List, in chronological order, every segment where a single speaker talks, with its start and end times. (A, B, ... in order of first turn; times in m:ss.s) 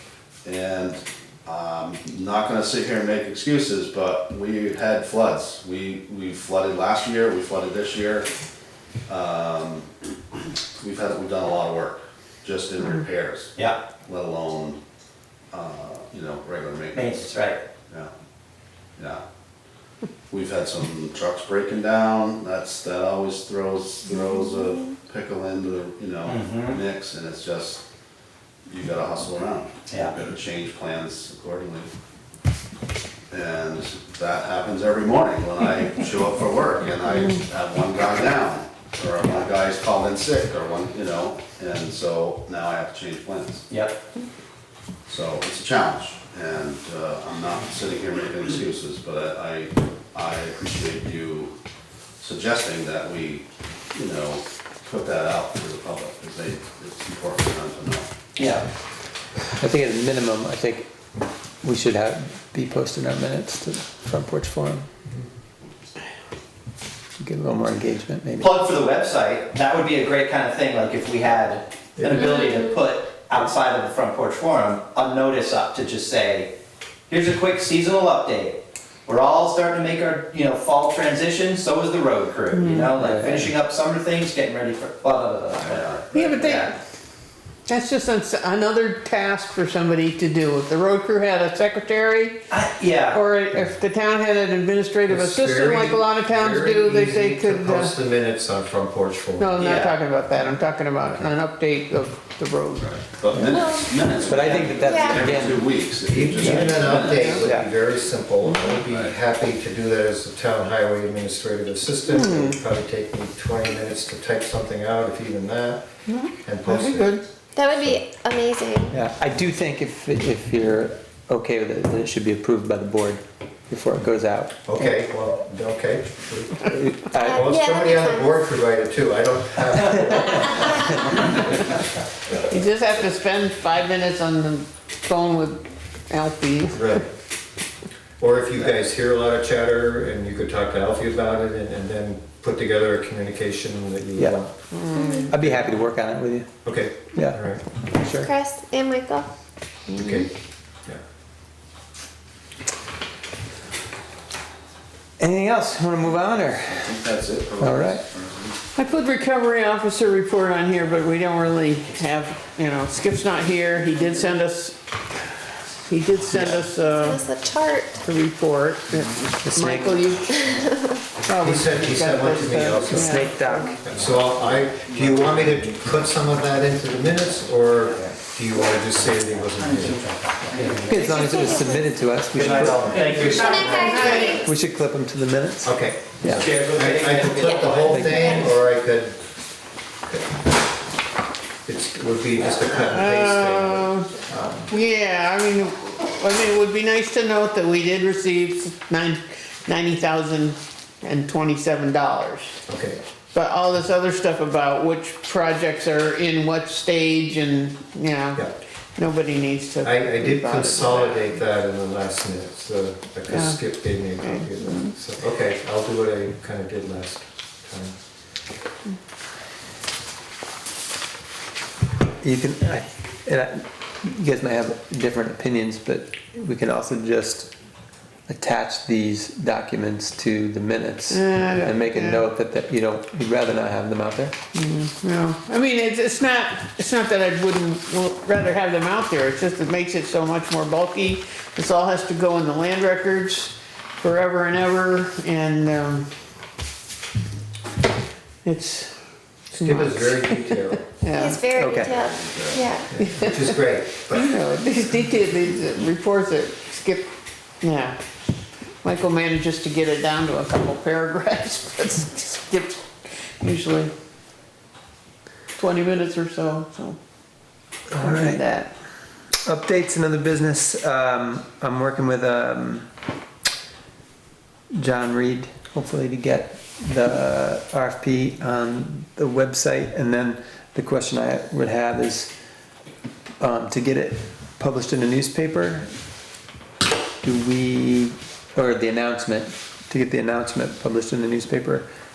0:00.4-0:08.3 A
0:09.1-0:09.9 A
0:10.8-0:13.5 A
0:14.1-0:14.8 A
0:15.5-0:18.1 A
0:16.9-0:17.6 B
0:19.0-0:19.2 A
0:20.3-0:27.8 A
0:26.2-0:26.8 B
0:28.7-0:31.9 A
0:33.3-0:43.7 A
0:43.7-0:44.0 B
0:45.1-0:51.5 A
0:52.2-0:58.1 A
0:58.4-0:58.7 B
0:59.6-1:00.9 C
1:01.6-1:04.9 C
1:07.2-1:08.6 C
1:08.4-1:16.5 B
1:17.1-1:26.7 B
1:22.5-1:22.9 D
1:22.9-1:23.5 C
1:25.6-1:26.4 A
1:26.1-1:26.8 D
1:27.7-1:32.5 D
1:32.5-1:33.2 B
1:33.1-1:38.0 D
1:35.1-1:39.5 E
1:39.4-1:43.0 D
1:39.6-1:40.0 B
1:42.8-1:47.4 A
1:43.3-1:45.7 C
1:43.5-1:43.8 F
1:44.9-1:45.3 F
1:46.1-1:55.9 E
1:46.4-1:46.8 C
1:46.4-1:47.4 D
1:47.4-1:47.7 C
1:48.4-1:48.8 D
1:48.9-1:49.1 A
1:52.1-1:52.6 D
1:56.1-1:57.2 D
1:56.4-1:57.2 E
1:57.6-1:59.0 F
1:58.9-2:04.6 C
2:04.7-2:11.7 E
2:06.6-2:07.5 C
2:07.2-2:08.4 F
2:12.5-2:17.0 D
2:16.7-2:17.1 E
2:18.2-2:24.5 E
2:24.7-2:25.6 D
2:24.9-2:25.3 F
2:25.3-2:26.5 C
2:26.6-2:27.7 E
2:27.1-2:27.4 C
2:28.0-2:28.3 C
2:28.2-2:29.3 F
2:29.9-2:30.2 D
2:30.0-2:30.3 E
2:35.2-2:37.0 C
2:36.6-2:38.6 A
2:37.6-2:38.0 C
2:38.8-2:47.2 D
2:47.0-2:48.0 F
2:47.9-2:50.3 D
2:49.4-2:50.1 C
2:50.3-2:51.0 F
2:51.2-2:53.8 D
2:51.4-2:53.3 E
2:52.9-2:53.8 C
2:53.8-3:00.0 E
2:59.8-3:01.3 B
3:00.5-3:01.9 F
3:00.8-3:03.0 C
3:02.3-3:04.3 B
3:02.5-3:03.4 E
3:02.9-3:04.4 D
3:03.4-3:04.5 F
3:04.2-3:06.5 C
3:05.6-3:09.2 E
3:06.3-3:08.5 B
3:07.8-3:08.3 C
3:08.2-3:08.5 F
3:10.1-3:10.4 E
3:11.7-3:14.7 E
3:12.9-3:14.1 D
3:14.7-3:22.6 D
3:22.7-3:23.0 E
3:23.3-3:31.4 D
3:29.8-3:38.0 E
3:33.3-3:34.9 D
3:42.2-3:47.5 C
3:48.3-3:54.3 C
3:51.1-3:52.3 D
3:54.5-4:06.1 D
4:08.4-4:08.9 D
4:09.5-4:11.6 D
4:09.6-4:10.8 E
4:11.1-4:13.0 F
4:11.5-4:12.0 C
4:11.6-4:12.7 A
4:12.9-4:14.4 E
4:13.0-4:18.0 D
4:18.8-4:23.9 D
4:25.6-4:27.0 D
4:27.9-4:28.4 C
4:28.0-4:28.7 D
4:29.4-4:32.9 C
4:34.8-4:42.3 C
4:43.4-4:45.9 C
4:47.2-4:51.9 C